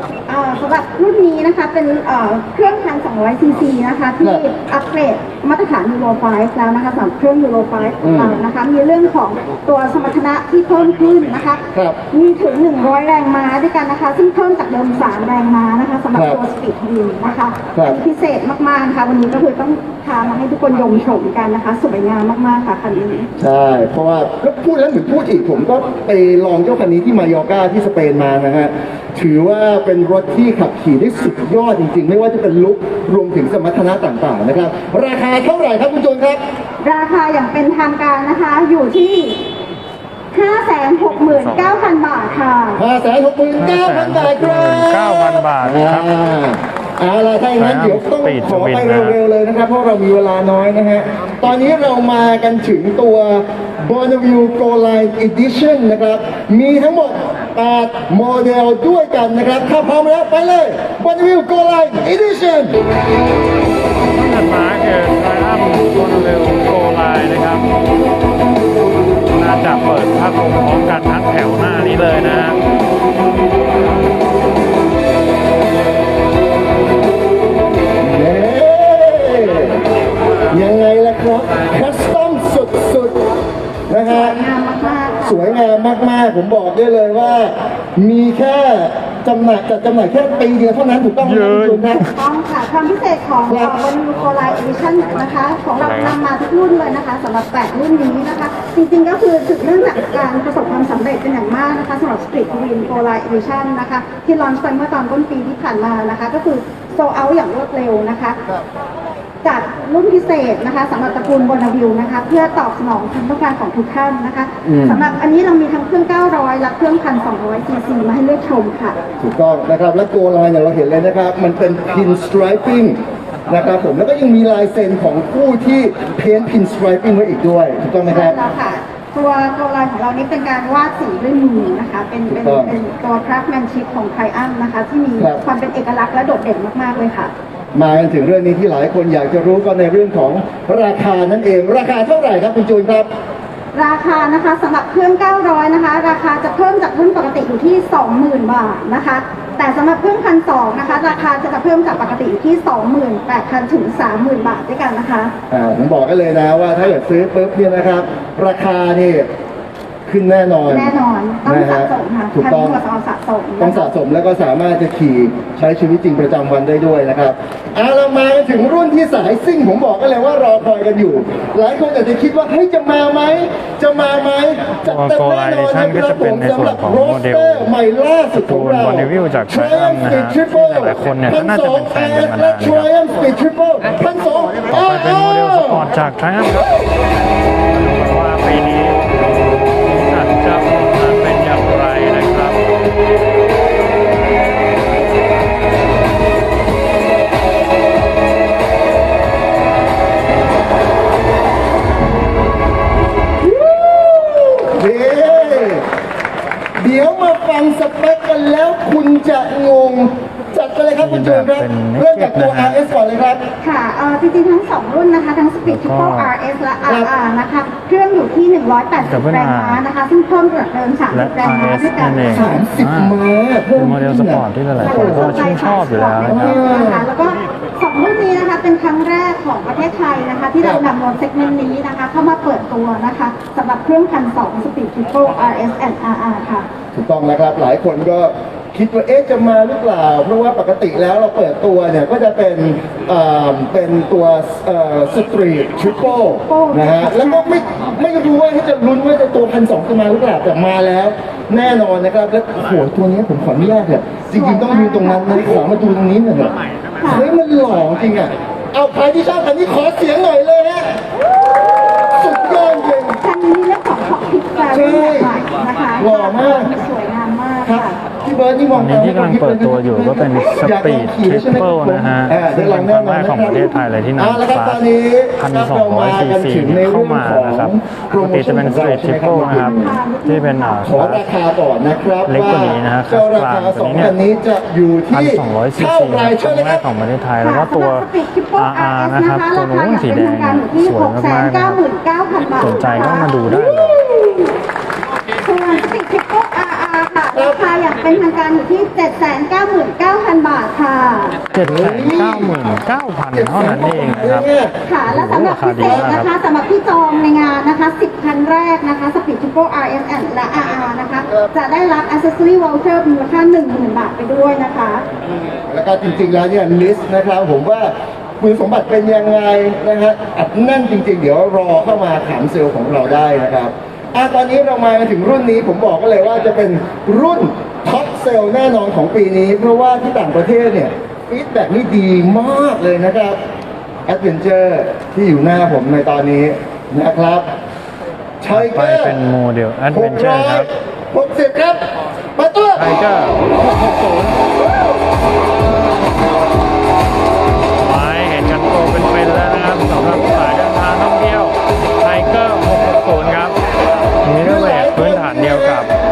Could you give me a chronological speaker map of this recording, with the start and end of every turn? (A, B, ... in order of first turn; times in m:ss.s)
0:00.3-0:23.3 A
0:08.0-0:08.4 B
0:11.7-0:12.0 B
0:16.1-0:16.4 B
0:23.4-0:36.4 B
0:36.8-0:39.4 A
0:40.3-0:42.8 A
0:42.8-1:02.8 B
0:43.6-0:46.1 C
0:47.6-0:49.2 C
1:04.1-1:07.6 C
1:09.3-1:12.6 C
1:18.0-1:19.8 B
1:20.5-1:23.2 B
1:23.9-1:24.4 B
1:24.0-1:25.4 A
1:25.2-1:32.1 B
1:31.2-1:32.1 C
1:32.0-1:48.4 A
1:33.5-1:33.8 B
1:35.8-1:36.2 C
1:49.4-1:59.0 A
1:54.6-1:55.0 B
1:59.2-2:08.4 B
2:08.0-2:17.3 A
2:12.3-2:12.7 B
2:15.2-2:15.4 B
2:17.7-2:23.1 B
2:23.7-2:35.3 A
2:35.5-2:39.3 B
2:40.1-2:40.9 B
2:40.7-2:43.9 A
2:41.4-2:42.8 B
2:43.6-3:05.9 B
2:54.9-2:57.7 C
2:58.3-3:02.9 C
3:04.7-3:06.7 C
3:07.7-3:12.6 C
3:23.4-3:25.8 B
3:26.8-3:33.4 B
3:31.0-3:32.8 C
3:33.6-3:42.4 A
3:35.7-3:36.3 C
3:39.0-3:39.8 C
3:41.1-3:43.2 C
3:42.3-3:45.5 B
3:43.8-3:46.6 C
3:44.8-3:56.7 A
3:46.3-3:47.1 B
3:56.9-4:20.9 B
4:06.4-4:07.7 A
4:14.3-4:15.6 A
4:17.0-4:17.3 A
4:21.8-4:23.2 B
4:23.2-4:28.0 A
4:24.7-4:25.4 B
4:26.0-4:26.7 B
4:27.6-4:40.0 B
4:28.7-4:34.8 C
4:35.4-4:41.2 C
4:39.4-4:40.9 A
4:40.8-4:46.8 B
4:42.3-4:44.2 C
4:45.1-4:51.8 C
4:47.4-4:53.4 A
4:52.5-4:54.0 C
4:53.5-4:54.5 B
4:55.4-5:01.4 A
4:57.3-4:57.6 B
5:01.5-5:04.5 C
5:01.6-5:02.6 B
5:03.3-5:04.7 B
5:04.9-5:15.0 A
5:05.1-5:06.3 C
5:05.8-5:06.1 B
5:15.7-5:33.4 B
5:34.1-5:37.5 B
5:38.4-5:39.2 B
5:38.5-5:40.7 C
5:39.9-5:41.8 B
5:42.4-5:42.8 B
5:42.8-5:44.4 C
5:47.8-5:53.6 C
5:54.2-5:55.9 C
5:54.4-5:55.9 B